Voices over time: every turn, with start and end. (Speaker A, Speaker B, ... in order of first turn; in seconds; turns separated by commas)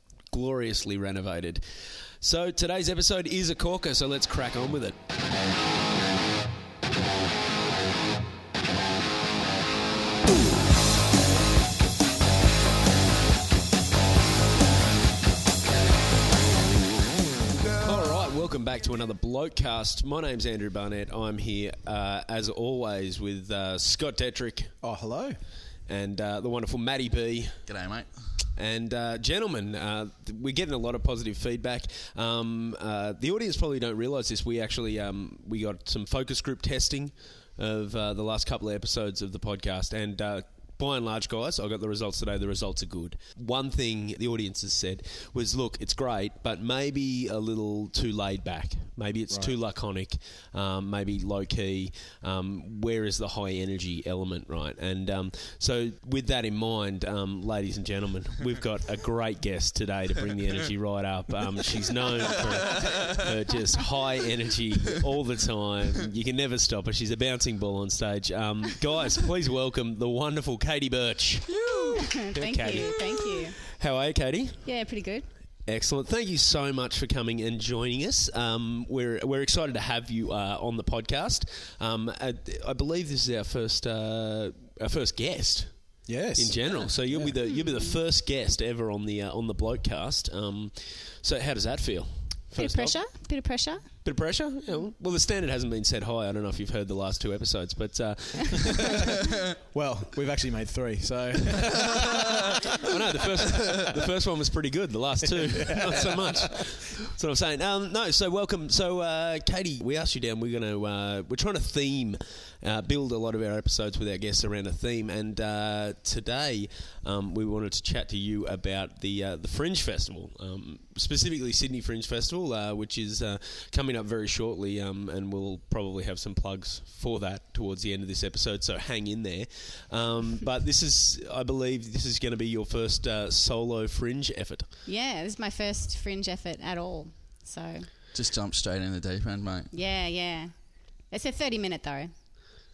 Speaker A: 0.3-5.0, Speaker A: 17.8-24.7, Speaker B: 24.8-25.4, Speaker A: 25.9-27.6, Speaker C: 27.7-28.1, Speaker A: 28.6-71.6, Speaker C: 71.5-72.1, Speaker D: 71.9-73.6, Speaker A: 72.3-74.7, Speaker D: 74.7-75.3, Speaker A: 75.7-93.0, Speaker B: 86.1-87.4, Speaker D: 87.5-88.0, Speaker D: 92.6-93.9, Speaker A: 94.0-99.0, Speaker B: 99.6-102.5, Speaker A: 102.8-134.7, Speaker B: 105.6-106.3, Speaker D: 134.8-137.9, Speaker C: 138.1-139.7, Speaker D: 139.7-142.1